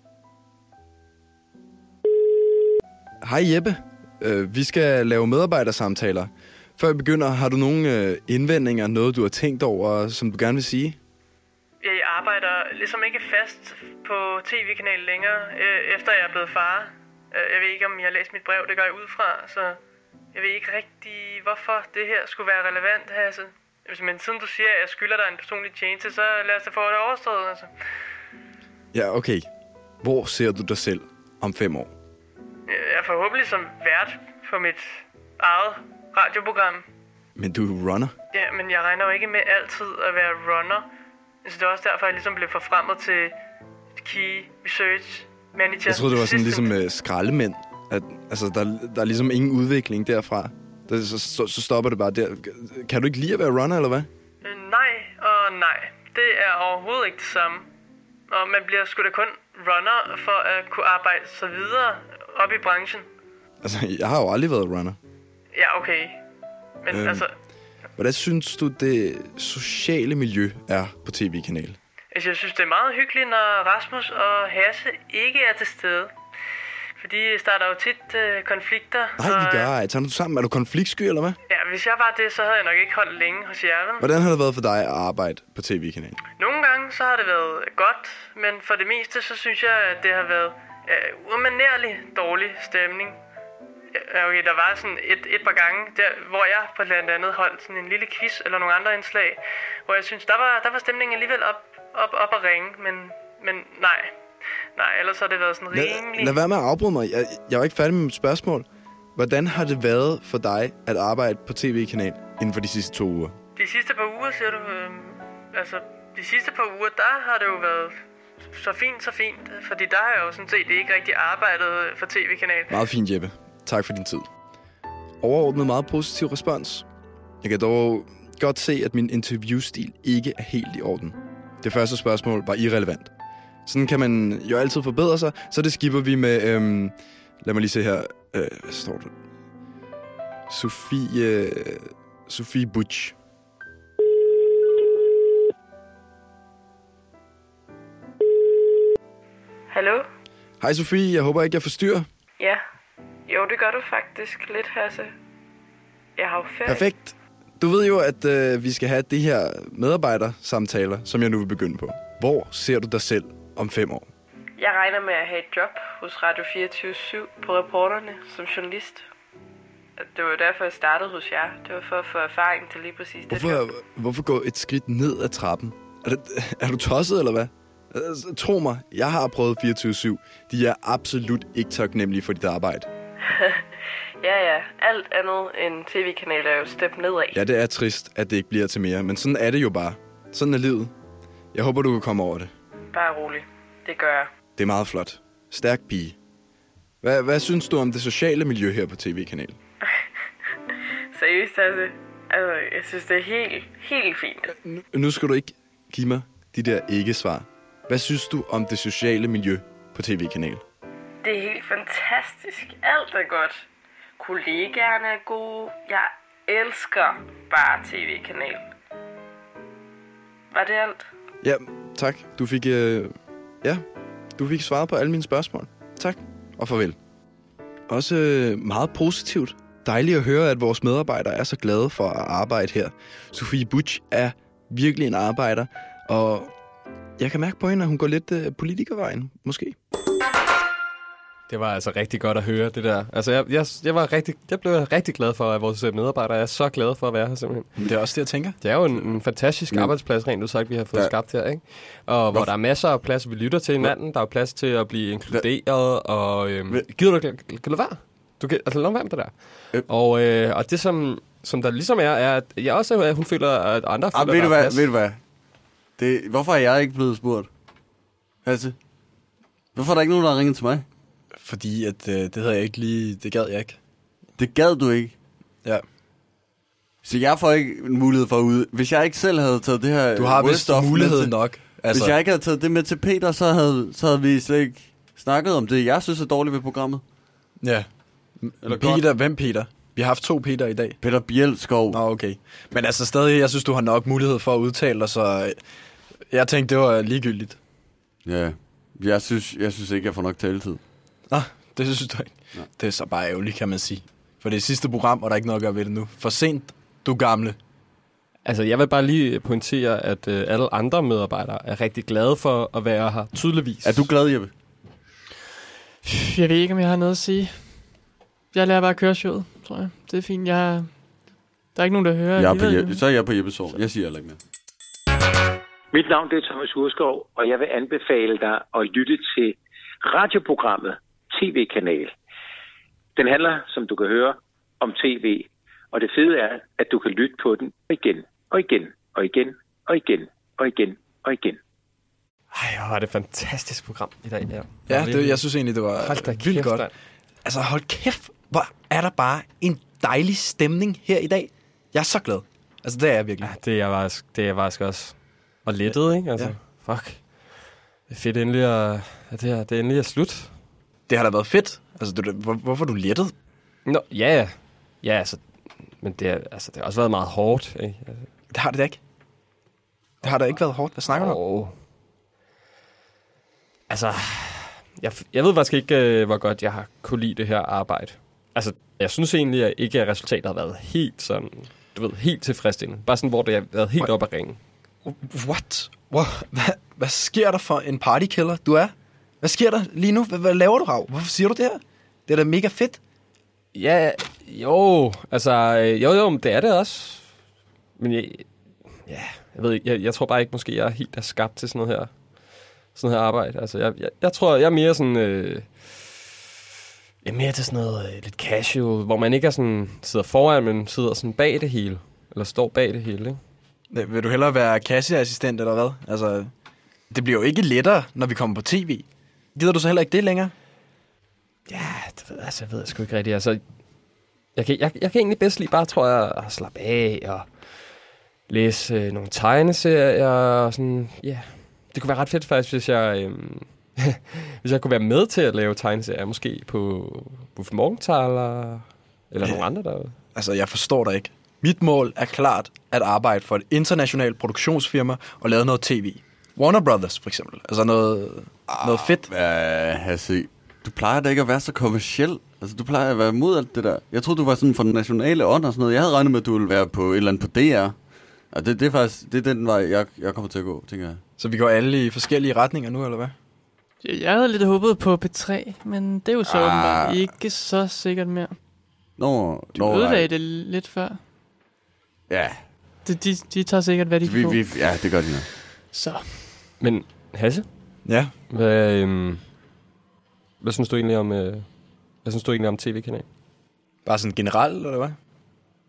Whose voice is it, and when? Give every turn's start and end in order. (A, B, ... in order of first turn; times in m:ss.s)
0:03.2-0:11.0 A
0:11.8-0:19.8 B
0:20.3-0:27.7 B
0:28.9-0:29.5 A
0:30.0-0:31.9 A
0:32.7-0:36.8 B
0:37.4-0:38.1 A
0:38.3-0:40.8 B
0:41.4-0:43.3 B
0:44.0-0:46.7 B
0:45.9-0:54.1 A
0:54.4-0:57.6 B
0:58.3-1:03.0 B
1:03.6-1:05.0 A
1:05.5-1:06.2 B
1:06.8-1:07.3 B
1:06.9-1:07.2 A
1:08.0-1:11.8 A
1:12.1-1:16.1 B
1:17.0-1:19.7 B
1:19.2-1:21.4 A
1:21.5-1:24.0 B
1:24.0-1:26.2 A
1:26.4-1:33.2 B
1:33.9-1:44.1 B
1:44.7-1:46.4 B
1:45.7-1:53.3 A
1:53.6-1:58.0 B
1:58.5-2:02.8 B
2:02.7-2:04.3 A
2:05.2-2:06.8 A
2:07.4-2:13.1 A
2:13.6-2:19.1 A
2:20.5-2:23.1 A
2:29.7-2:30.0 C
2:30.6-2:32.1 A
2:32.4-2:32.6 C
2:33.3-2:35.1 C
2:36.2-2:36.9 C
2:36.6-2:44.1 A
2:44.6-2:49.0 C
2:50.0-2:53.6 C
2:53.3-3:02.9 A
3:03.2-3:03.6 C
3:04.2-3:07.4 C
3:07.3-3:10.9 A
3:11.5-3:12.5 A
3:12.9-3:14.3 C
3:14.6-3:16.2 A
3:17.0-3:19.6 A
3:21.1-3:24.5 C
3:24.6-3:30.6 A
3:31.2-3:33.6 C
3:34.2-3:38.7 C
3:40.5-3:41.0 C
3:41.4-3:43.8 A
3:44.4-3:47.0 A
3:47.9-3:56.5 A
3:57.2-3:59.8 A
4:01.5-4:07.9 D
4:07.8-4:08.6 A
4:08.6-4:24.9 D
4:09.7-4:09.9 E
4:24.1-4:25.2 E
4:26.0-4:27.5 E
4:28.4-4:28.8 E
4:29.7-4:30.8 E
4:31.4-4:33.8 A
4:34.4-4:35.1 E
4:37.0-4:47.0 E
4:40.1-4:42.1 A
4:47.6-4:51.0 A
4:48.6-4:49.0 E
4:51.0-4:52.0 E
4:51.9-4:55.6 A
4:56.2-4:57.6 A
4:58.2-5:00.8 E
5:01.3-5:07.6 A
5:08.4-5:14.1 D
5:13.8-5:14.5 E
5:16.0-5:17.8 B
5:18.5-5:21.0 B
5:21.7-5:23.0 B
5:22.4-5:24.4 E
5:25.9-5:32.1 F
5:33.2-5:41.6 F
5:42.5-5:46.9 D
5:44.9-5:46.9 A
5:47.4-5:53.5 A
5:53.4-6:00.6 D
6:01.1-6:03.3 A
6:03.8-6:08.3 D
6:08.5-6:09.0 A
6:10.2-6:11.4 A
6:10.2-6:11.8 D
6:13.9-6:24.6 D
6:25.0-6:33.0 A
6:33.7-6:37.3 D
6:38.0-6:38.5 D
6:39.0-6:46.2 D
6:47.2-6:53.4 D
6:53.9-6:56.5 A
6:57.1-7:00.5 A
7:01.7-7:03.6 D
7:04.5-7:20.1 D
7:19.4-7:19.7 A
7:20.3-7:29.3 A
7:28.7-7:38.0 E
7:38.5-7:41.2 E
7:41.4-7:43.3 A
7:44.0-7:48.5 B
7:46.4-7:47.2 E
7:49.2-7:50.3 E
7:49.7-7:51.2 B
7:52.3-7:52.7 E
7:53.0-7:54.7 B
7:54.2-7:55.5 E
7:55.9-7:56.6 B
7:56.8-7:59.5 D
7:58.0-7:58.3 A
8:00.6-8:03.2 D
8:04.0-8:05.2 A